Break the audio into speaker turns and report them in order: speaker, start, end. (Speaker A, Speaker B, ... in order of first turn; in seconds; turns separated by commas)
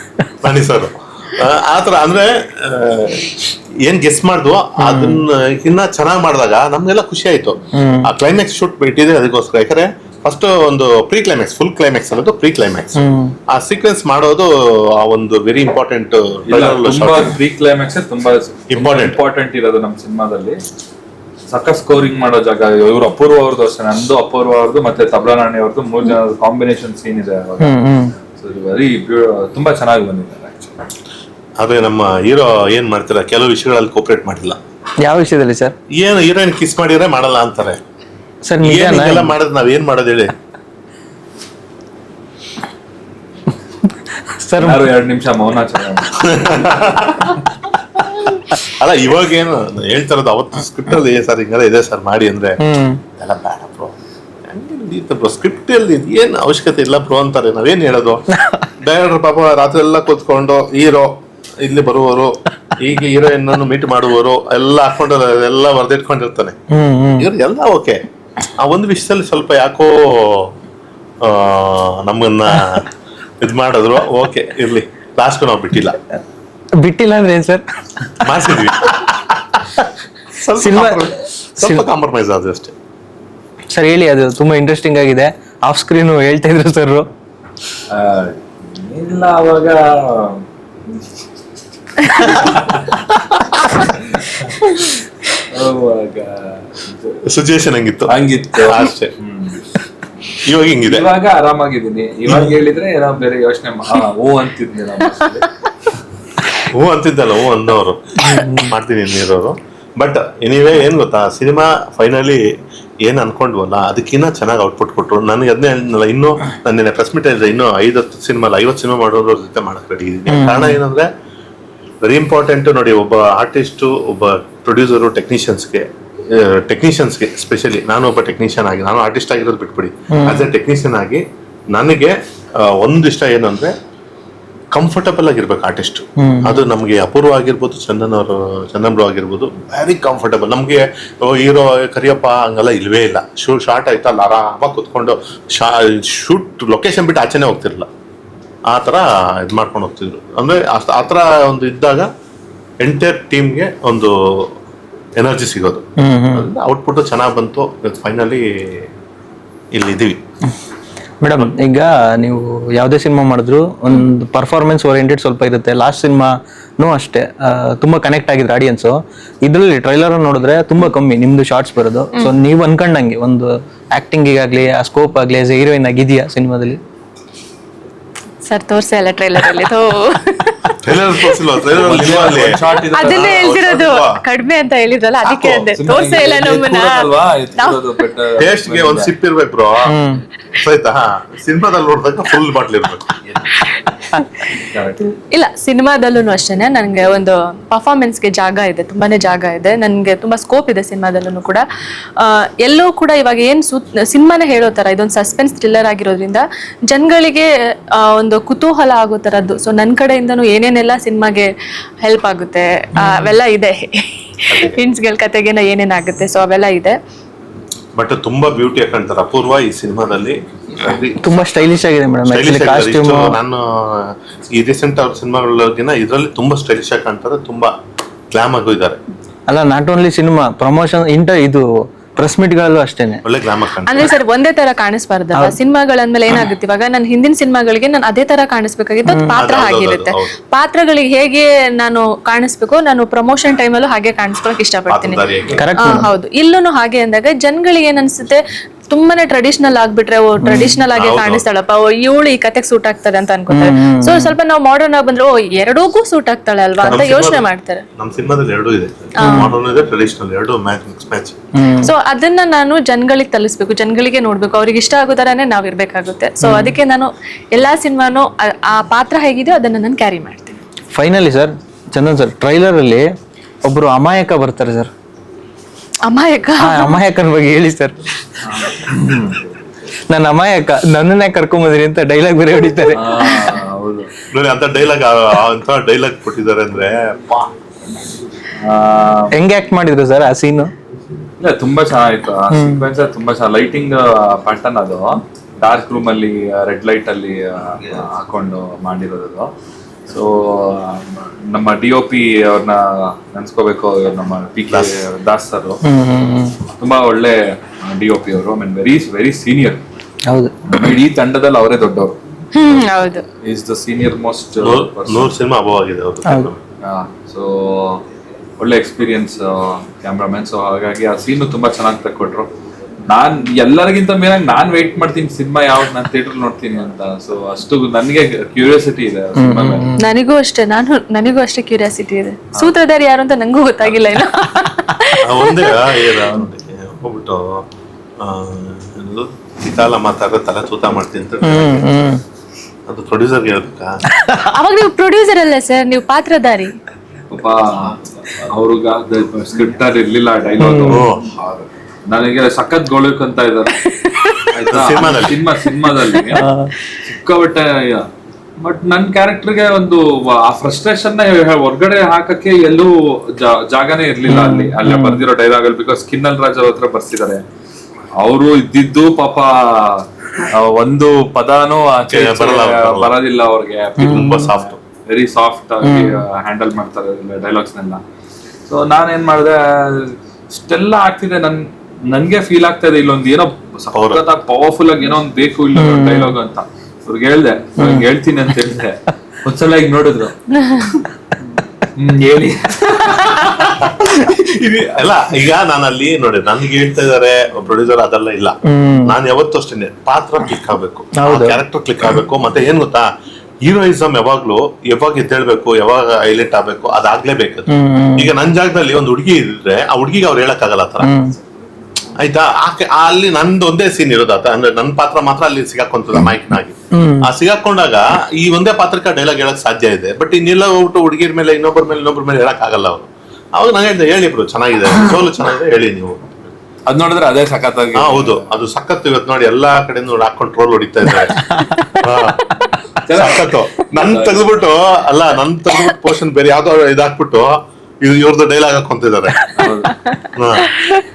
Speaker A: 0.4-17.4, Speaker B: 4.8-5.2, Speaker B: 7.7-8.1, Speaker B: 12.9-13.3, Speaker C: 16.5-20.6, Speaker A: 18.7-19.2, Speaker C: 21.5-27.8, Speaker B: 27.6-28.1, Speaker C: 28.4-30.8, Speaker A: 31.6-34.6, Speaker B: 35.0-35.8, Speaker A: 35.9-37.8, Speaker B: 38.5-39.3, Speaker A: 38.6-40.3, Speaker B: 44.3-44.8, Speaker C: 44.6-47.4, Speaker A: 46.2-47.4, Speaker A: 48.3-52.6, Speaker B: 52.6-53.0, Speaker A: 53.2-53.9, Speaker A: 54.5-58.3, Speaker B: 58.4-58.7, Speaker A: 58.8-66.6, Speaker B: 66.7-67.3, Speaker A: 67.2-68.0, Speaker A: 68.6-70.5, Speaker A: 71.2-72.9, Speaker A: 73.4-76.0, Speaker B: 76.8-78.6, Speaker A: 78.2-82.7, Speaker B: 80.6-81.8, Speaker B: 83.7-87.1, Speaker C: 87.9-90.5, Speaker C: 92.0-93.1, Speaker C: 94.0-94.6, Speaker C: 95.4-97.2, Speaker A: 97.2-99.1, Speaker C: 98.1-99.7, Speaker A: 100.4-101.1, Speaker C: 100.8-105.9, Speaker A: 106.7-112.5, Speaker A: 113.0-121.1, Speaker B: 120.3-120.8, Speaker A: 122.0-133.8, Speaker B: 130.1-130.4, Speaker A: 134.7-147.9, Speaker B: 136.2-136.6, Speaker A: 148.7-152.1, Speaker A: 152.8-154.5, Speaker A: 155.2-158.9, Speaker B: 156.0-156.5, Speaker A: 159.7-160.2, Speaker B: 161.2-176.8, Speaker D: 178.4-181.4, Speaker A: 180.8-184.2, Speaker C: 181.7-183.6, Speaker D: 182.9-187.8, Speaker A: 185.2-185.7, Speaker C: 185.7-189.1, Speaker A: 188.4-190.0, Speaker B: 189.8-190.2, Speaker A: 190.5-193.6, Speaker C: 194.6-195.1, Speaker D: 195.2-201.7, Speaker D: 202.2-211.5, Speaker D: 212.0-217.0, Speaker B: 213.0-213.3, Speaker A: 214.5-214.8, Speaker A: 217.9-221.4, Speaker B: 221.2-223.4, Speaker A: 222.3-227.7, Speaker A: 228.3-229.0, Speaker B: 229.5-233.2, Speaker A: 233.2-234.1, Speaker D: 233.9-245.2, Speaker A: 239.3-240.3, Speaker A: 244.9-245.7, Speaker B: 245.5-246.1, Speaker D: 245.8-257.9, Speaker B: 250.4-250.7, Speaker A: 250.9-251.4, Speaker B: 253.5-254.4, Speaker A: 256.8-261.4, Speaker D: 259.2-259.6, Speaker B: 259.2-259.5, Speaker B: 261.6-261.9, Speaker D: 261.8-270.6, Speaker B: 266.4-266.8, Speaker B: 270.9-273.1, Speaker B: 273.6-274.9, Speaker D: 276.1-277.0, Speaker B: 276.6-278.1, Speaker C: 278.4-279.4, Speaker B: 280.1-283.4, Speaker C: 282.9-284.1, Speaker A: 284.3-287.5, Speaker C: 288.6-289.4, Speaker B: 289.3-290.7, Speaker C: 291.4-299.5, Speaker B: 292.5-292.8, Speaker C: 300.1-305.8, Speaker A: 304.7-305.0, Speaker B: 305.8-306.6, Speaker C: 306.8-309.8, Speaker B: 310.3-310.6, Speaker C: 310.7-312.2, Speaker D: 312.5-313.3, Speaker C: 313.4-315.3, Speaker A: 314.6-316.6, Speaker C: 316.8-318.0, Speaker C: 318.6-322.5, Speaker C: 323.1-329.9, Speaker B: 329.4-330.1, Speaker D: 330.0-336.4, Speaker A: 335.2-337.6, Speaker A: 338.2-342.0, Speaker B: 341.4-342.2, Speaker A: 342.9-344.0, Speaker B: 344.1-344.5, Speaker D: 344.5-346.8, Speaker C: 347.3-351.1, Speaker B: 350.6-351.0, Speaker A: 350.8-351.3, Speaker C: 352.1-367.4, Speaker D: 353.9-354.5, Speaker A: 354.7-355.4, Speaker B: 356.3-356.7, Speaker B: 364.3-365.2, Speaker C: 368.2-378.0, Speaker A: 372.1-373.1, Speaker B: 374.0-374.5, Speaker A: 374.0-374.8, Speaker B: 375.8-376.2, Speaker C: 378.7-390.4, Speaker A: 383.9-384.2, Speaker B: 385.8-386.3, Speaker B: 387.8-388.1, Speaker D: 390.6-390.9, Speaker C: 391.9-393.8, Speaker A: 393.8-403.1, Speaker B: 398.7-399.1, Speaker B: 401.2-401.6, Speaker A: 403.6-411.1, Speaker B: 407.7-408.3, Speaker B: 411.0-411.4, Speaker A: 412.2-426.6, Speaker B: 416.9-417.3, Speaker C: 426.9-428.5, Speaker A: 428.0-432.6, Speaker C: 433.0-434.6, Speaker A: 433.1-439.5, Speaker C: 439.6-439.9, Speaker A: 440.3-440.7